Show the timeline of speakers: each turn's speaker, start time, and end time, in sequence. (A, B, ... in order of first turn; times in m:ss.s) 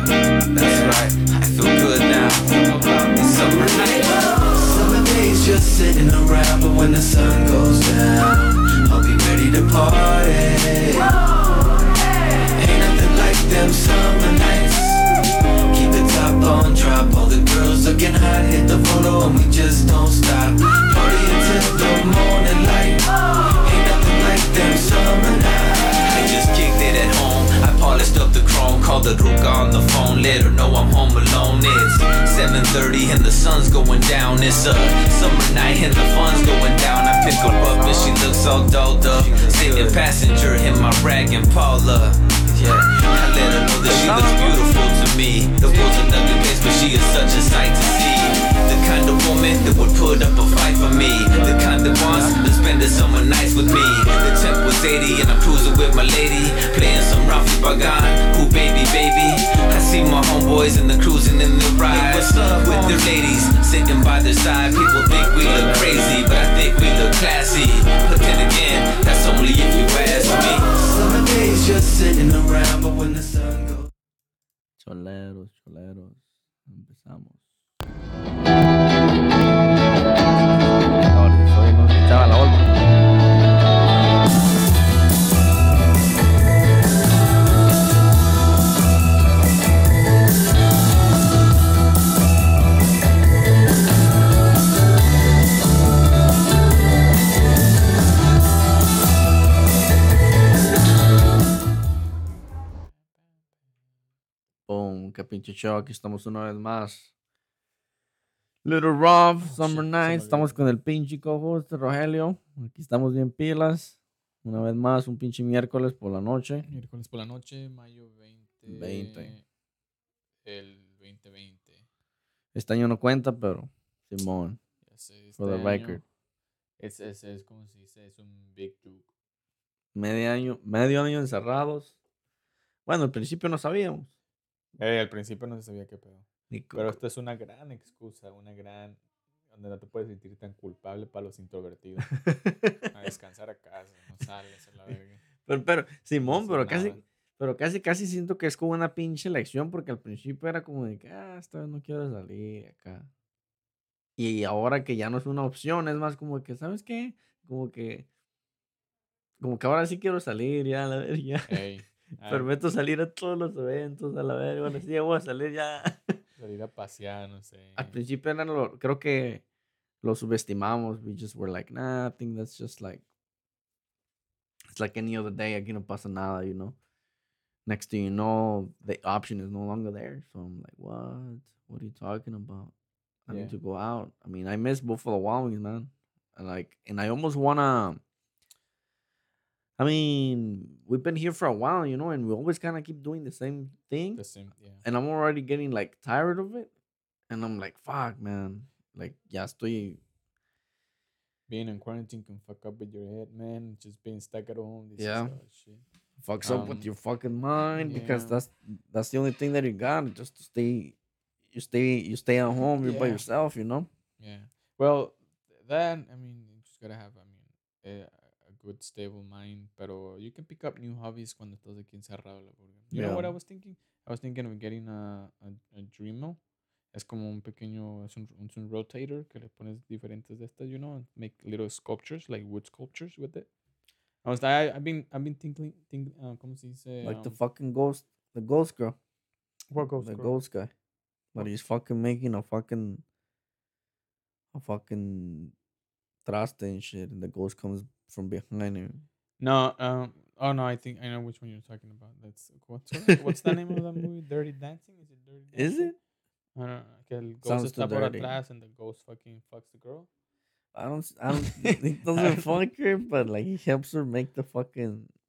0:00.5-0:11.1 A
0:00.6-0:01.0 B
0:12.5-0:15.1 A
0:15.7-1:13.9 A
0:37.6-0:38.1 C
0:39.3-0:40.0 C
0:45.6-0:46.0 B
0:52.0-0:52.7 B
1:05.4-1:06.1 C
1:14.8-1:17.4 C
1:20.9-1:22.9 C
1:44.7-1:47.1 C
1:48.6-1:56.6 C
1:49.4-1:50.7 B
1:56.6-1:59.4 B
1:58.6-1:59.3 C
2:00.4-2:01.8 B
2:02.5-2:04.6 C
2:04.8-2:06.0 B
2:05.4-2:06.0 C
2:06.8-2:09.1 B
2:09.9-2:11.9 C
2:12.8-2:14.1 C
2:14.8-2:19.0 B
2:16.5-2:17.0 C
2:19.5-2:22.2 B
2:22.1-2:22.8 C
2:22.9-2:25.2 B
2:25.4-2:33.1 C
2:26.2-2:27.0 B
2:34.2-2:38.1 C
2:39.4-2:41.6 C
2:41.5-2:42.5 B
2:42.2-2:46.1 C
2:46.4-2:48.0 B
2:47.8-2:49.4 C
2:50.0-2:53.0 C
2:54.7-2:56.8 C
2:57.6-3:02.7 C
3:03.2-3:08.0 C
3:03.3-3:03.6 B
3:09.8-3:14.2 C
3:14.1-3:14.8 B
3:14.8-3:16.7 C
3:17.3-3:20.0 C
3:21.5-3:25.8 B
3:25.0-3:25.4 C
3:26.2-3:31.0 C
3:26.4-3:26.9 B
3:27.8-3:28.4 B
3:31.5-3:33.9 C
3:32.8-3:33.2 B
3:34.2-3:53.5 B
3:42.9-3:43.3 C
3:54.2-3:57.4 B
3:57.0-3:59.0 C
3:59.7-4:00.3 B
4:00.0-4:00.7 C
4:01.3-4:03.0 C
4:04.5-4:05.5 C
4:06.2-4:09.0 C
4:09.4-4:15.9 B
4:13.1-4:13.5 C
4:15.5-4:15.9 C
4:16.5-4:20.1 B
4:17.4-4:18.3 C
4:20.7-4:25.1 C
4:21.3-4:22.4 B